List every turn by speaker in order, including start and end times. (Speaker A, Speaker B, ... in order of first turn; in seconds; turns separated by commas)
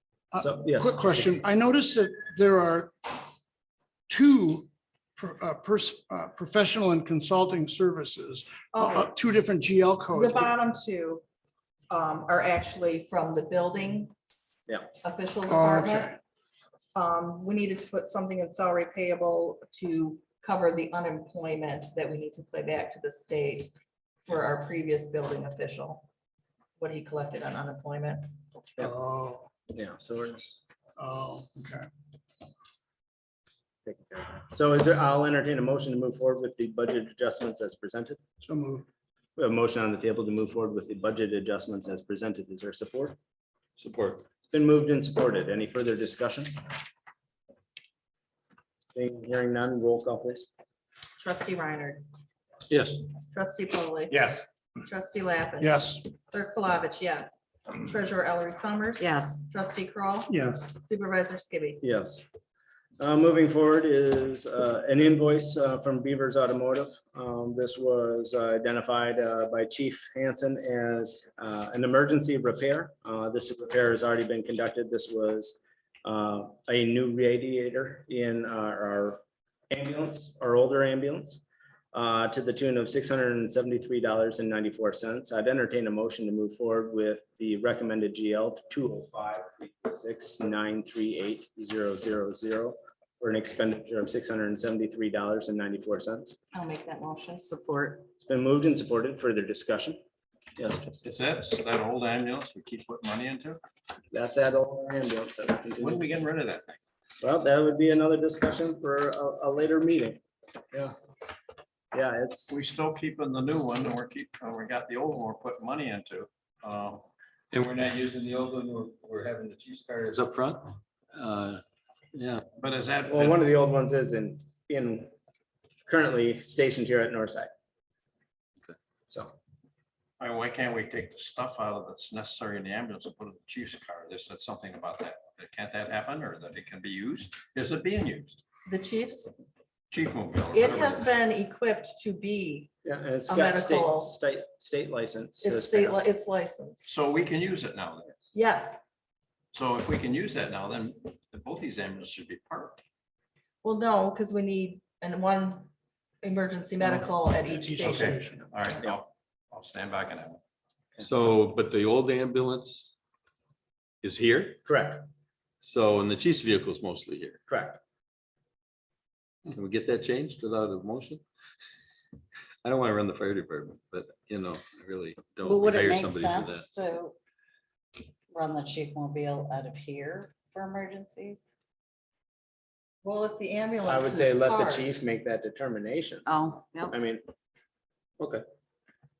Speaker A: 0.3-3.2, Speaker B: 0.4-1.3, Speaker A: 4.1-10.5, Speaker C: 8.7-9.1, Speaker C: 10.1-11.2, Speaker C: 11.9-14.1, Speaker C: 15.0-16.2, Speaker A: 15.5-16.2, Speaker C: 16.9-23.7, Speaker C: 24.2-26.1, Speaker C: 26.8-28.3, Speaker A: 28.8-29.5, Speaker B: 29.7-30.6, Speaker A: 31.0-31.9, Speaker B: 33.8-38.2, Speaker A: 38.4-38.9, Speaker B: 39.4-43.2, Speaker D: 43.8-44.3, Speaker B: 44.5-46.5, Speaker B: 48.8-50.5, Speaker C: 51.2-52.0, Speaker D: 52.7-53.0, Speaker C: 53.3-54.3, Speaker C: 54.8-61.8, Speaker A: 55.6-56.0, Speaker E: 59.0-59.3, Speaker E: 60.3-60.8, Speaker B: 61.8-62.2, Speaker B: 63.0-81.4, Speaker B: 81.9-96.4, Speaker C: 96.5-97.5, Speaker E: 97.5-98.0, Speaker B: 98.2-100.0, Speaker B: 100.6-101.0, Speaker F: 101.0-103.6, Speaker B: 104.1-106.0, Speaker F: 105.8-106.8, Speaker B: 107.2-110.2, Speaker B: 111.9-112.5, Speaker F: 112.5-117.1, Speaker D: 117.5-121.6, Speaker D: 122.1-122.4, Speaker F: 122.6-123.4, Speaker B: 123.1-125.1, Speaker B: 125.9-127.5, Speaker F: 130.2-138.4, Speaker C: 138.7-139.3, Speaker F: 139.9-141.0, Speaker C: 140.5-142.7, Speaker B: 142.8-146.0, Speaker C: 143.3-144.1, Speaker C: 145.4-146.9, Speaker F: 146.8-148.2, Speaker C: 148.3-148.8, Speaker F: 149.5-152.8, Speaker C: 153.6-155.7, Speaker C: 156.2-158.2, Speaker A: 157.5-158.5, Speaker F: 157.8-160.4, Speaker D: 161.0-162.9, Speaker D: 164.0-164.6, Speaker B: 164.6-165.0, Speaker D: 165.6-167.4, Speaker B: 167.5-167.8, Speaker D: 169.5-171.2, Speaker D: 172.6-176.7, Speaker E: 175.4-177.1, Speaker E: 178.3-181.4, Speaker C: 183.0-184.9, Speaker B: 183.8-186.3, Speaker E: 186.2-186.9, Speaker B: 186.9-187.2